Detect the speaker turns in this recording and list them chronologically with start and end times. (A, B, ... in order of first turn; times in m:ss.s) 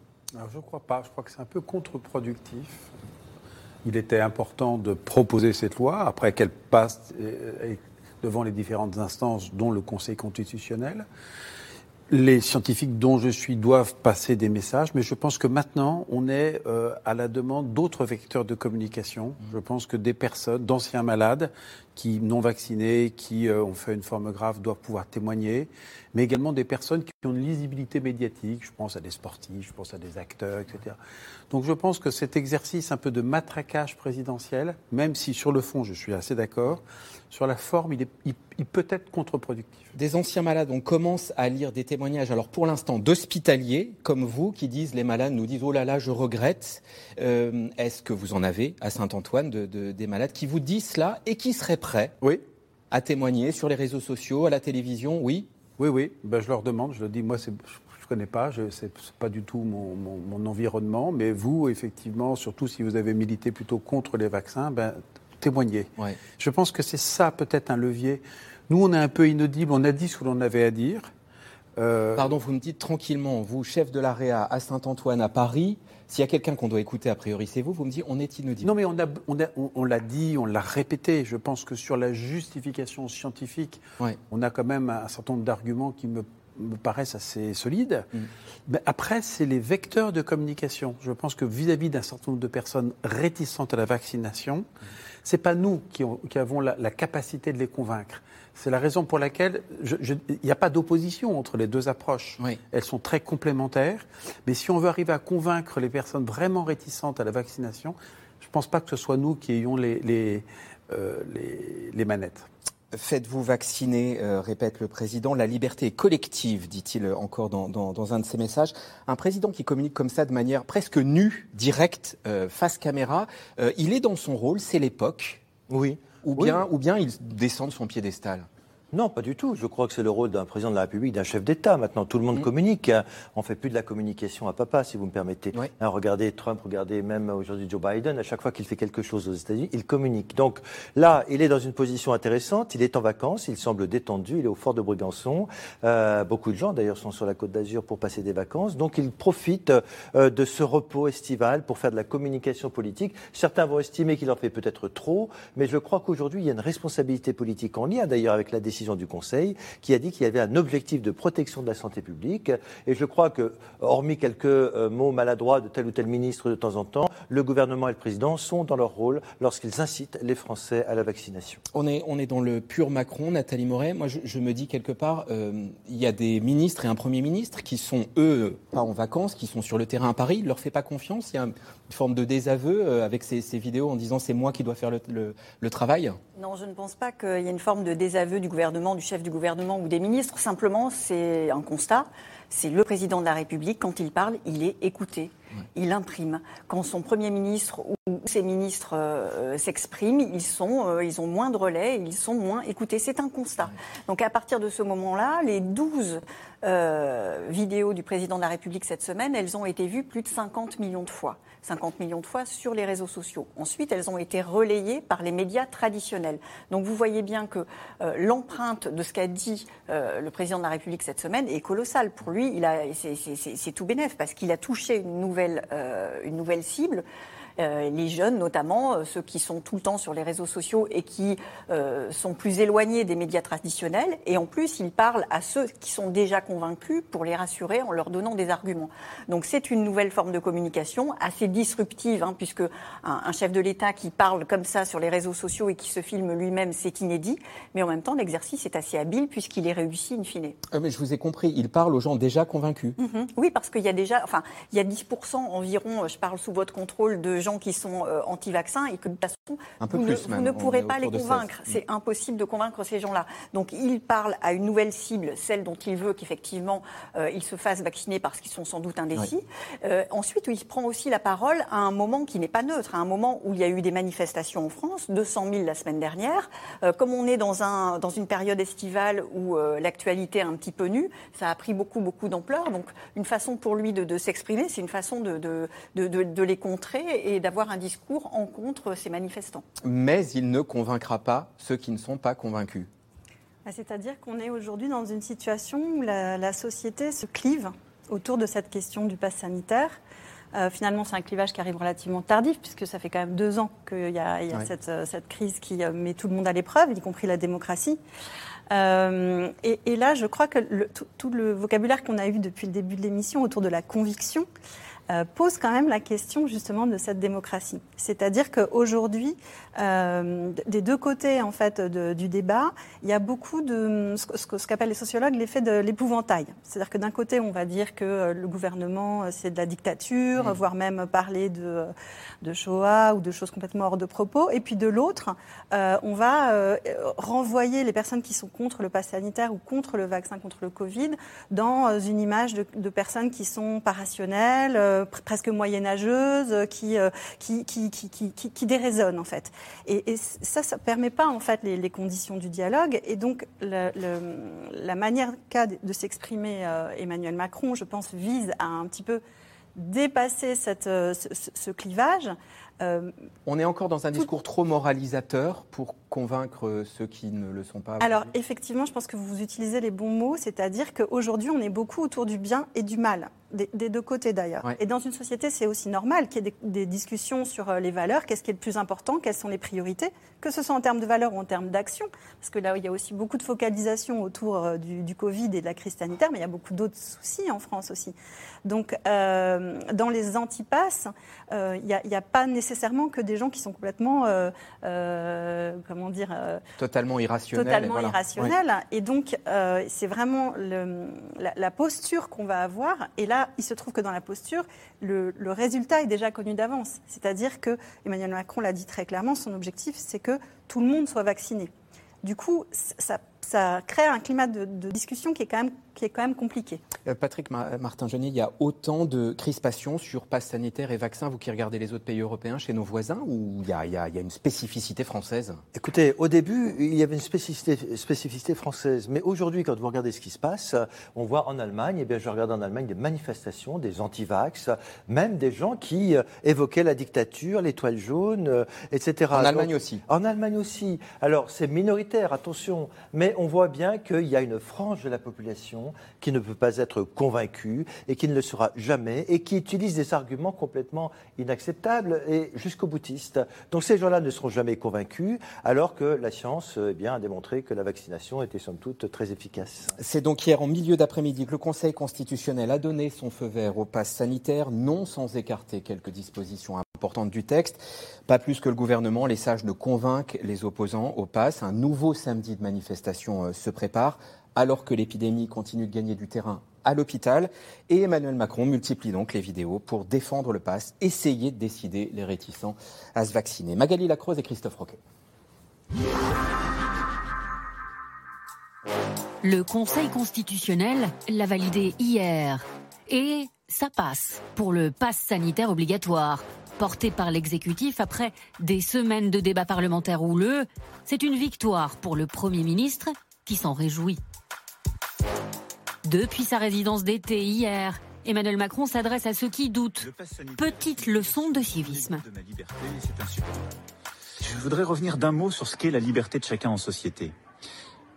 0:00.3-0:02.9 A
0:03.8-0:11.0 A
0:12.1-0:31.0 A
0:31.5-0:39.9 A
0:40.0-0:52.2 B
0:52.9-0:55.5 B
0:55.8-1:11.1 A
1:11.8-1:12.3 A
1:12.2-1:18.7 B
1:18.6-1:28.1 A
1:28.7-1:34.6 A
1:35.2-1:52.5 A
1:52.9-2:05.4 B
2:05.7-2:06.6 C
2:06.2-2:08.5 B
2:08.9-2:51.6 C
2:51.7-3:06.2 B
3:06.3-3:47.0 D
3:47.6-4:10.6 D
4:10.7-4:13.0 B
4:13.0-4:49.6 D
4:19.8-4:21.8 B
4:49.8-4:52.9 B
4:53.6-5:00.0 E
5:00.5-5:08.0 E
5:08.7-5:14.5 E
5:15.1-5:59.2 E
5:59.8-6:03.1 E
6:03.4-6:08.3 B
6:08.0-6:36.6 E
6:36.8-6:38.5 B
6:37.5-6:51.7 E
6:52.2-6:56.8 E
6:57.0-7:05.6 B
7:05.8-7:39.9 C
7:19.3-7:20.0 B
7:40.0-8:05.0 B
8:09.4-8:24.2 F
8:26.0-8:32.2 F
8:30.0-8:33.7 G
8:34.4-8:37.3 G